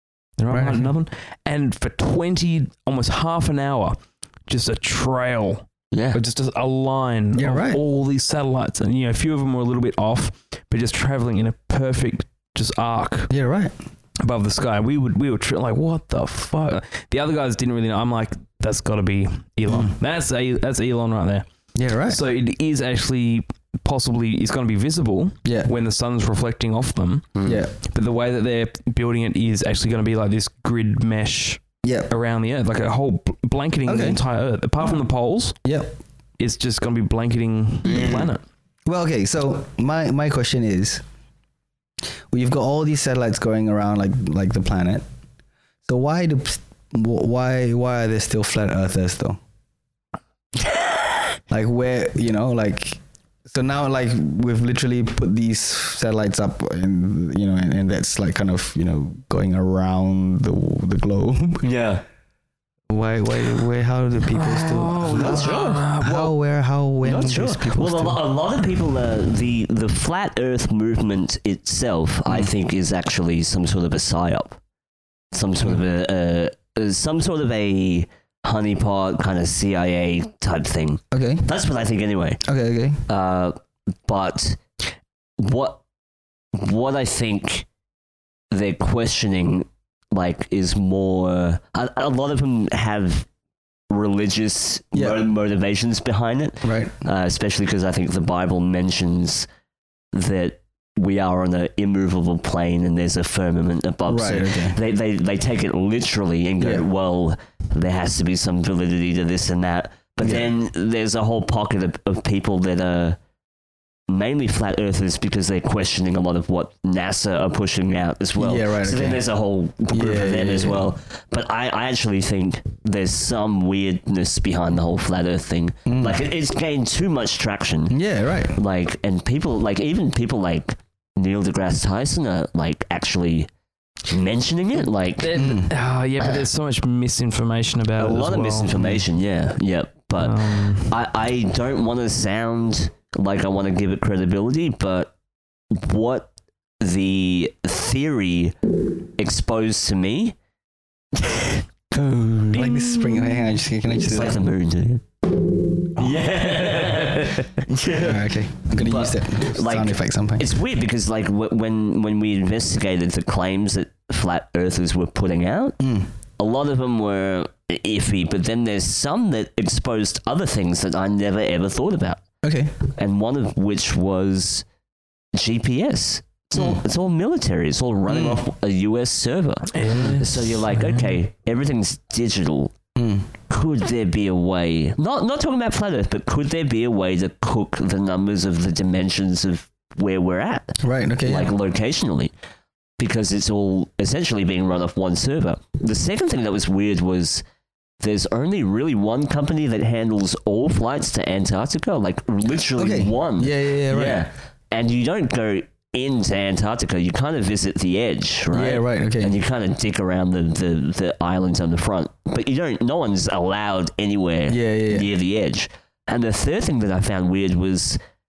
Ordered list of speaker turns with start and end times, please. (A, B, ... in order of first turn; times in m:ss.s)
0:00.4-0:13.3 A
0:00.5-0:00.9 B
0:05.9-0:06.2 C
0:07.4-0:07.8 B
0:13.3-0:13.7 B
0:14.2-0:21.5 A
0:19.7-0:19.9 B
0:21.8-0:22.2 B
0:22.0-0:35.6 A
0:25.4-0:25.7 B
0:27.4-0:27.7 B
0:31.8-0:32.1 B
0:33.9-0:34.2 B
0:35.6-0:36.0 B
0:36.4-0:38.4 A
0:37.8-0:38.3 C
0:38.9-0:41.0 B
0:42.3-0:45.0 B
0:45.9-0:49.4 B
0:51.5-1:01.7 B
1:01.6-1:02.0 C
1:02.9-1:08.2 B
1:04.3-1:06.3 A
1:05.1-1:05.8 C
1:07.0-1:14.6 C
1:15.3-1:22.4 C
1:21.1-1:21.5 B
1:22.4-1:23.0 B
1:23.1-1:24.6 C
1:25.4-1:25.8 C
1:26.5-1:27.7 C
1:28.5-1:33.3 C
1:33.9-1:39.5 C
1:34.9-1:35.2 B
1:36.6-1:36.9 B
1:40.1-1:53.2 C
1:44.1-1:44.8 B
1:46.6-1:46.8 B
1:50.2-1:50.5 B
1:54.1-2:08.0 C
1:58.4-1:59.2 B
1:59.9-2:00.9 B
2:05.9-2:06.2 B
2:07.9-2:08.6 B
2:08.6-2:13.5 C
2:14.1-2:15.4 C
2:15.2-2:19.0 A
2:15.3-2:15.7 B
2:18.0-2:25.1 C
2:20.2-2:21.0 A
2:25.7-2:26.3 C
2:26.8-2:28.6 C
2:29.2-2:30.4 C
2:31.2-2:31.6 C
2:32.0-2:34.4 B
2:32.5-2:33.5 A
2:34.0-2:35.1 C
2:35.9-2:38.2 C
2:37.9-2:40.5 B
2:38.8-2:45.8 C
2:45.8-2:46.1 B
2:46.4-2:52.2 C
2:52.4-2:52.7 B
2:52.9-2:54.6 C
2:55.3-3:02.7 C
2:56.6-2:56.8 B
2:58.1-2:58.4 B
2:59.7-3:01.2 A
2:59.9-3:00.2 B
3:03.0-3:03.3 B
3:03.5-3:12.3 C
3:10.8-3:11.5 B
3:13.0-3:17.4 C
3:18.0-3:38.0 C
3:22.8-3:24.3 B
3:28.5-3:29.4 B
3:34.5-3:35.1 B